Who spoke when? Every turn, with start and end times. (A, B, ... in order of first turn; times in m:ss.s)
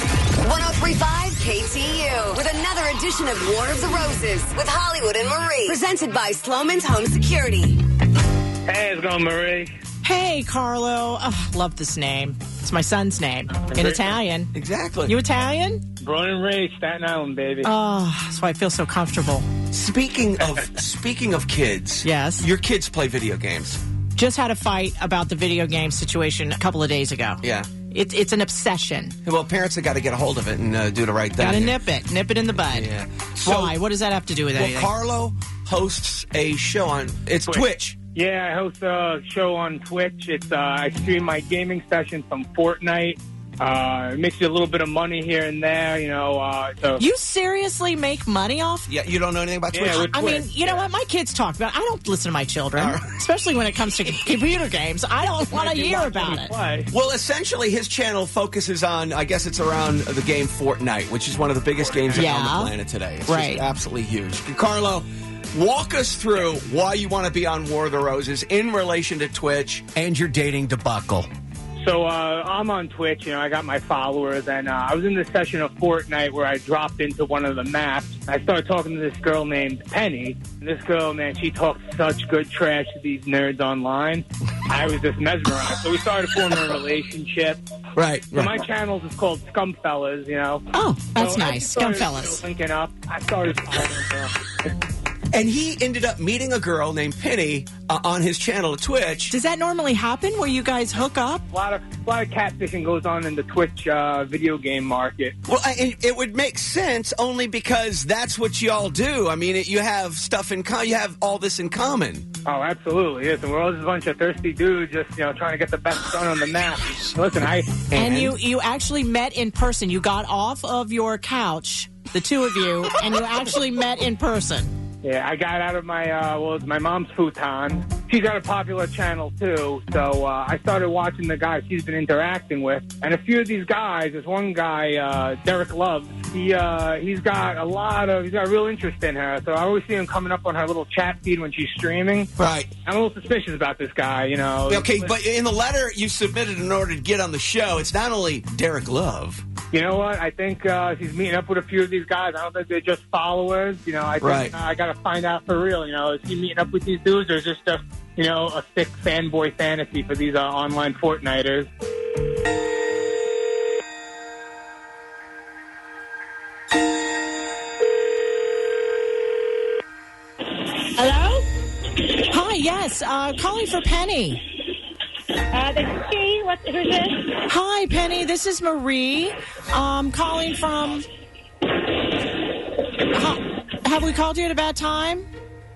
0:00.4-0:07.8 A
0:08.7-0:09.7 B
0:10.0-0:14.5 C
0:14.5-0:15.2 D
0:15.1-0:15.8 C
0:16.0-0:17.6 B
0:17.6-0:19.5 C
0:19.7-0:23.8 D
0:22.0-0:22.5 C
0:24.2-0:29.2 C
0:27.4-0:27.8 D
0:29.2-0:31.8 D
0:31.4-0:34.9 C
0:32.6-0:33.8 D
0:34.5-0:38.0 D
0:37.5-0:47.0 B
0:47.0-0:48.9 C
0:48.9-0:50.5 D
0:49.7-0:50.8 B
0:49.9-0:56.5 C
0:52.7-0:53.1 D
0:55.5-0:56.9 B
0:56.9-1:11.3 D
1:01.8-1:02.2 B
1:02.1-1:02.7 C
1:03.3-1:03.6 C
1:11.8-1:27.6 B
1:28.0-1:28.6 D
1:28.4-1:30.6 B
1:30.7-1:32.4 C
1:31.2-1:34.3 B
1:35.3-1:39.4 D
1:39.3-1:41.4 C
1:41.5-1:45.4 B
1:45.4-1:52.3 D
1:52.4-1:57.8 B
1:57.8-1:58.4 D
1:57.9-2:04.7 C
2:05.0-2:22.3 B
2:22.4-2:22.7 D
2:22.8-2:25.1 B
2:24.7-2:29.4 D
2:29.7-2:41.7 B
2:34.2-2:34.5 D
2:51.0-2:51.5 E
2:52.3-2:54.4 C
2:55.5-2:57.3 E
2:57.5-3:01.0 C
3:03.1-3:05.3 C